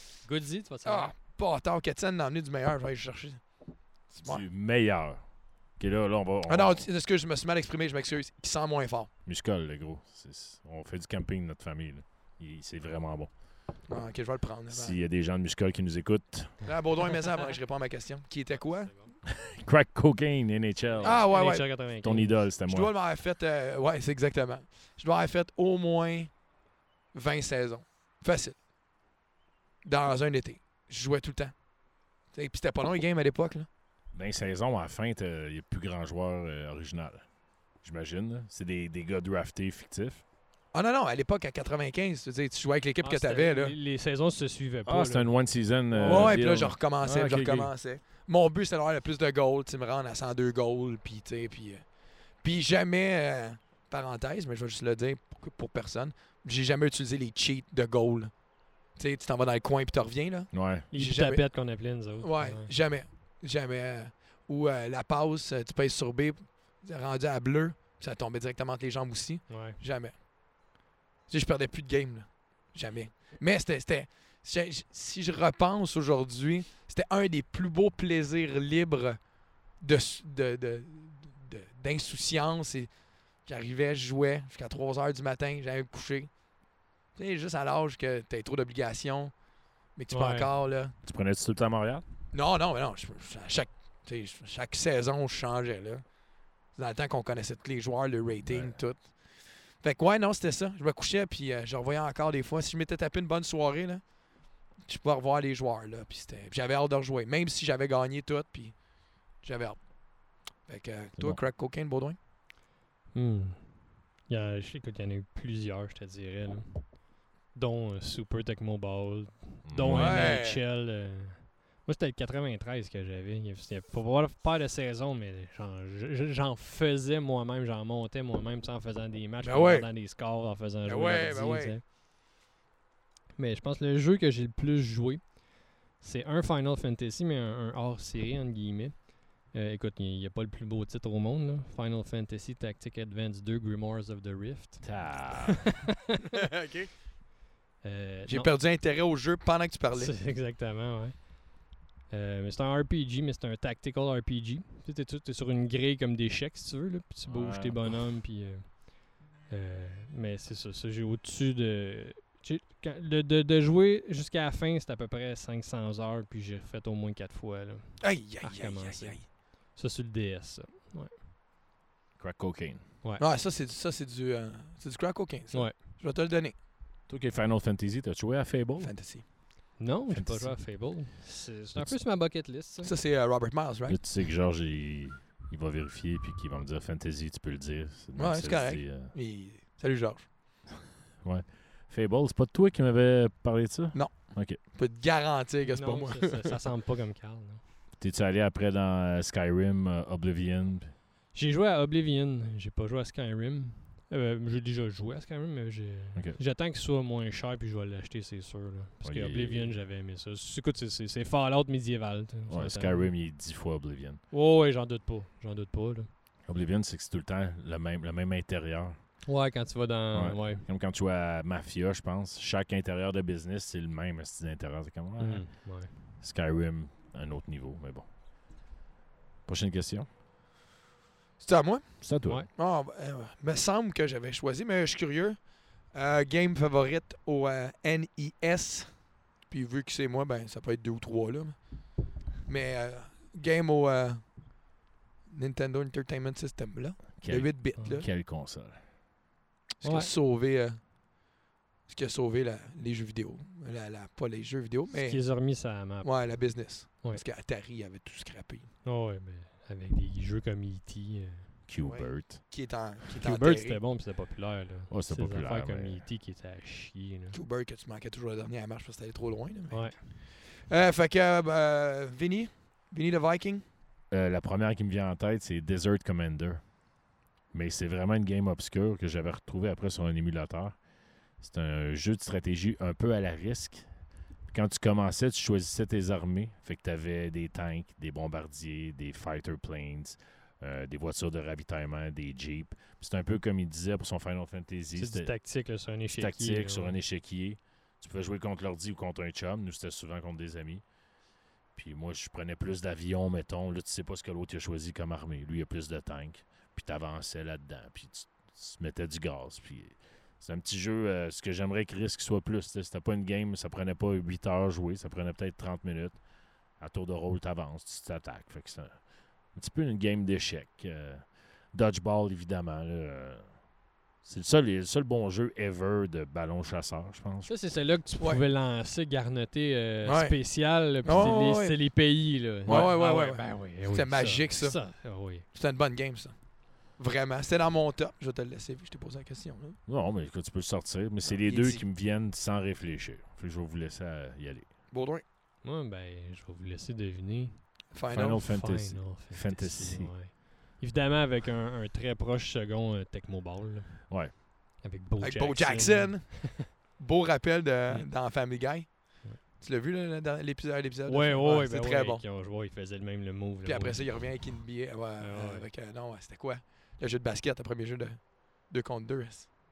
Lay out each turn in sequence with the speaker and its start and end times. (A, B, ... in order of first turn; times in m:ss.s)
0:00.2-0:01.1 A
0:00.8-0:04.4 B
0:04.2-0:06.9 C
0:06.5-0:09.1 B
0:09.2-0:13.3 C
0:13.9-0:15.0 B
0:14.7-0:16.8 C
0:16.6-0:18.9 B
0:18.6-0:19.2 A
0:19.4-0:22.9 C
0:20.9-0:22.4 A
0:21.0-0:21.7 B
0:22.7-0:26.5 B
0:27.1-0:28.6 B
0:29.8-0:31.7 B
0:32.3-0:33.7 B
0:34.1-0:40.2 C
0:40.7-0:43.8 B
0:43.0-0:46.4 A
0:44.8-0:47.7 C
0:46.0-1:10.8 B
1:00.5-1:00.9 C
1:00.9-1:02.7 A
1:09.5-1:09.8 A
1:11.3-1:26.3 B
1:27.1-1:29.3 B
1:30.0-1:31.0 B
1:30.1-1:30.5 A
1:31.0-1:32.0 C
1:32.3-1:36.2 B
1:36.7-1:52.2 B
1:38.4-1:38.8 C
1:53.1-2:11.8 A
1:59.7-2:00.4 C
1:59.9-2:00.6 B
2:09.4-2:09.9 B
2:10.8-2:11.8 B
2:13.4-2:25.9 A
2:24.8-2:25.8 C
2:26.4-2:26.9 B
2:27.8-2:28.6 A
2:28.3-2:30.2 B
2:29.9-2:51.2 A
2:37.3-2:38.0 C
2:48.0-2:49.2 B
2:52.2-2:52.9 C
2:53.2-2:56.6 B
2:55.5-2:55.8 A
2:57.1-2:59.0 C
2:58.8-2:59.2 B
2:59.8-3:02.9 A
3:00.1-3:01.2 C
3:01.7-3:02.0 C
3:02.8-3:04.0 B
3:03.9-3:09.2 C
3:08.2-3:10.6 B
3:11.2-3:14.6 C
3:13.9-3:16.6 B
3:15.7-3:17.6 A
3:18.0-3:21.0 C
3:21.3-3:33.2 A
3:29.0-3:29.8 C
3:32.5-3:34.2 C
3:34.3-3:36.1 A
3:36.4-3:39.2 C
3:39.2-3:40.7 A
3:40.1-3:48.1 C
3:45.2-3:46.0 A
3:49.5-3:50.1 C
3:51.4-4:04.7 B
3:52.0-3:52.5 C
4:05.3-4:08.1 B
4:07.2-4:08.9 C
4:09.8-4:11.1 B
4:09.8-4:10.1 A
4:11.9-4:18.7 B
4:14.9-4:17.2 A
4:18.8-4:21.6 A
4:21.7-4:22.4 C
4:21.8-4:23.8 B
4:23.2-4:27.4 A
4:24.9-4:26.1 C
4:27.3-4:33.6 B
4:29.7-4:30.2 A
4:34.1-4:37.0 C
4:37.5-4:43.9 C
4:44.5-4:55.4 C
4:55.0-4:57.0 A
4:56.2-5:00.8 C
5:01.7-5:27.5 C
5:27.5-5:35.4 A
5:28.2-5:28.4 B
5:30.0-5:39.8 B
5:31.1-5:31.4 C
5:32.6-5:32.9 C
5:39.9-5:44.7 C
5:41.2-5:41.8 B
5:44.9-5:45.2 B
5:45.6-5:56.7 A
5:47.9-5:48.5 B
5:48.1-5:50.2 C
5:55.2-6:02.2 B
5:57.9-5:58.2 A
6:01.1-6:05.7 A
6:03.6-6:09.5 B